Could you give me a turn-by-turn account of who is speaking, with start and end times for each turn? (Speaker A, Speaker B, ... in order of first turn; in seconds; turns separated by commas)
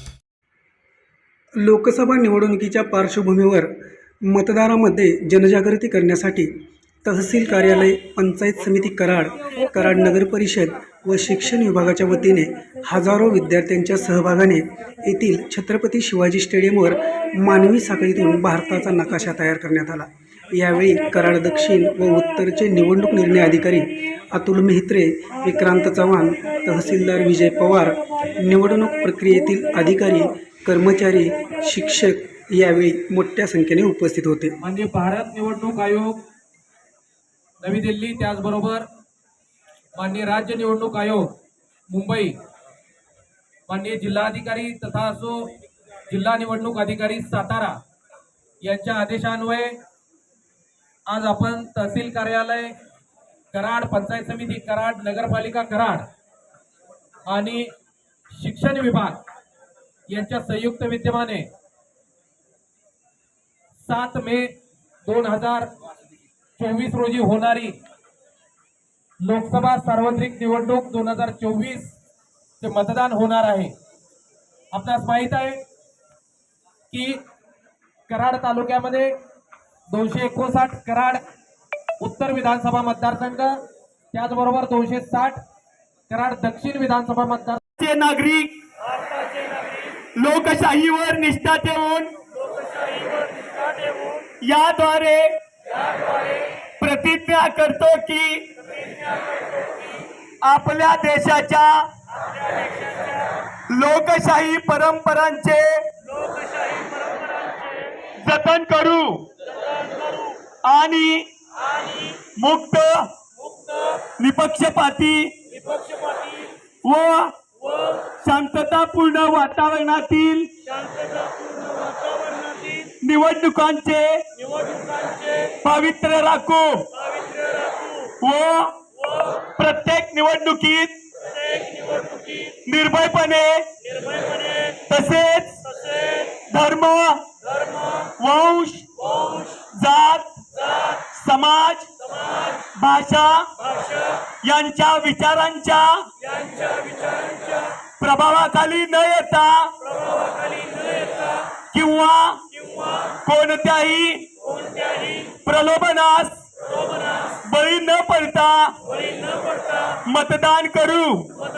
Speaker A: 1.6-3.7, Speaker A: 4.2-6.5, Speaker A: 7.0-34.5, Speaker B: 34.6-36.2, Speaker B: 37.6-38.9, Speaker B: 40.0-41.3, Speaker B: 41.9-42.4, Speaker B: 43.7-45.5, Speaker B: 46.1-47.8, Speaker B: 48.6-49.8, Speaker B: 51.1-52.7, Speaker B: 53.5-56.0, Speaker B: 57.3-57.7, Speaker B: 58.3-59.2, Speaker B: 60.1-61.5, Speaker B: 63.8-65.7, Speaker B: 66.6-67.7, Speaker B: 69.2-72.0, Speaker B: 72.6-73.7, Speaker B: 74.7-75.6, Speaker B: 76.9-77.2, Speaker B: 78.1-79.1, Speaker B: 79.9-81.2, Speaker B: 82.0-83.6, Speaker B: 84.1-85.4, Speaker B: 86.1-87.6, Speaker C: 87.7-88.5, Speaker C: 89.5-92.1, Speaker B: 92.9-94.0, Speaker C: 94.2-95.3, Speaker C: 96.8-98.7, Speaker C: 100.4-101.8, Speaker C: 103.7-105.7, Speaker C: 107.4-109.2, Speaker C: 110.0-111.3, Speaker C: 112.0-113.1, Speaker C: 114.1-115.7, Speaker C: 116.8-117.3, Speaker C: 117.9-120.8, Speaker B: 122.3-122.7, Speaker C: 122.7-124.5, Speaker C: 125.4-127.1, Speaker C: 127.9-130.9, Speaker C: 131.5-137.2, Speaker C: 137.9-140.4, Speaker C: 140.9-141.9, Speaker C: 142.5-149.7, Speaker C: 150.5-152.4, Speaker C: 153.0-156.4, Speaker C: 157.1-161.3